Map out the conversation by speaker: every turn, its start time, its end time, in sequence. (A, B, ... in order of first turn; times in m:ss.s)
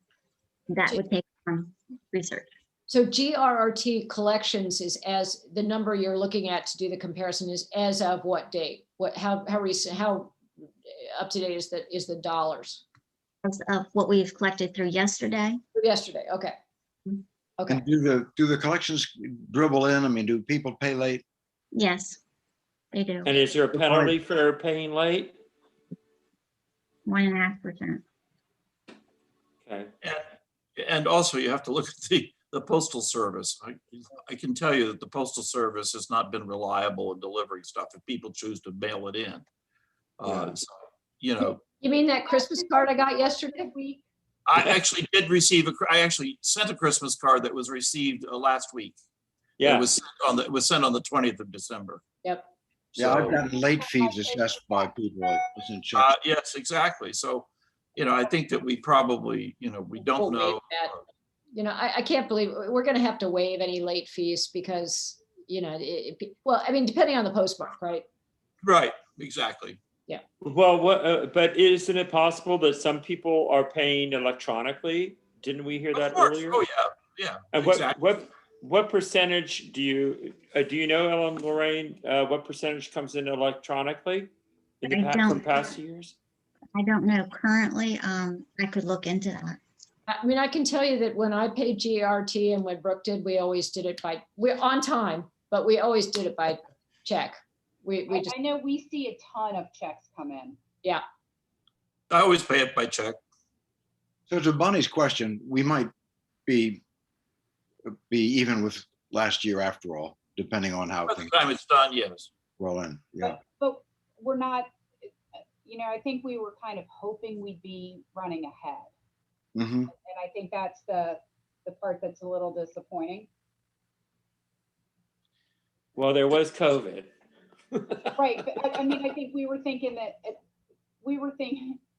0:00.7-0:02.5 A
0:02.9-0:10.4 B
0:11.0-0:12.8 B
0:13.4-0:15.6 A
0:15.8-0:16.5 B
0:17.6-0:17.8 B
0:17.7-0:21.2 C
0:21.7-0:22.2 A
0:22.9-0:23.3 A
0:23.2-0:25.4 D
0:23.7-0:24.2 C
0:27.1-0:28.0 A
0:29.7-0:29.9 D
0:30.8-0:39.4 E
0:40.2-0:40.7 E
0:41.2-0:41.6 E
0:41.7-0:43.7 B
0:42.3-0:44.0 F
0:44.5-0:49.0 E
0:49.6-0:49.9 D
0:49.6-0:52.0 E
0:52.2-0:52.5 B
0:53.0-0:53.4 E
0:53.0-0:56.1 C
0:53.4-0:54.9 F
0:56.0-1:01.0 E
1:00.1-1:01.0 B
1:01.5-1:08.0 B
1:08.6-1:09.8 E
1:10.4-1:16.6 D
1:15.9-1:18.0 E
1:17.5-1:26.2 D
1:24.8-1:25.4 A
1:26.8-1:29.6 A
1:30.1-1:38.3 B
1:38.1-1:40.6 F
1:42.1-1:43.2 E
1:44.3-1:45.9 C
1:46.5-1:46.8 C
1:47.8-1:51.4 C
1:51.1-1:52.3 E
1:52.6-1:53.4 C
1:53.2-1:54.7 F
1:55.6-1:58.9 F
1:59.6-1:59.9 C
1:59.9-2:03.3 F
2:06.0-2:07.1 D
2:07.7-2:08.3 D
2:08.2-2:10.4 F
2:11.0-2:11.8 F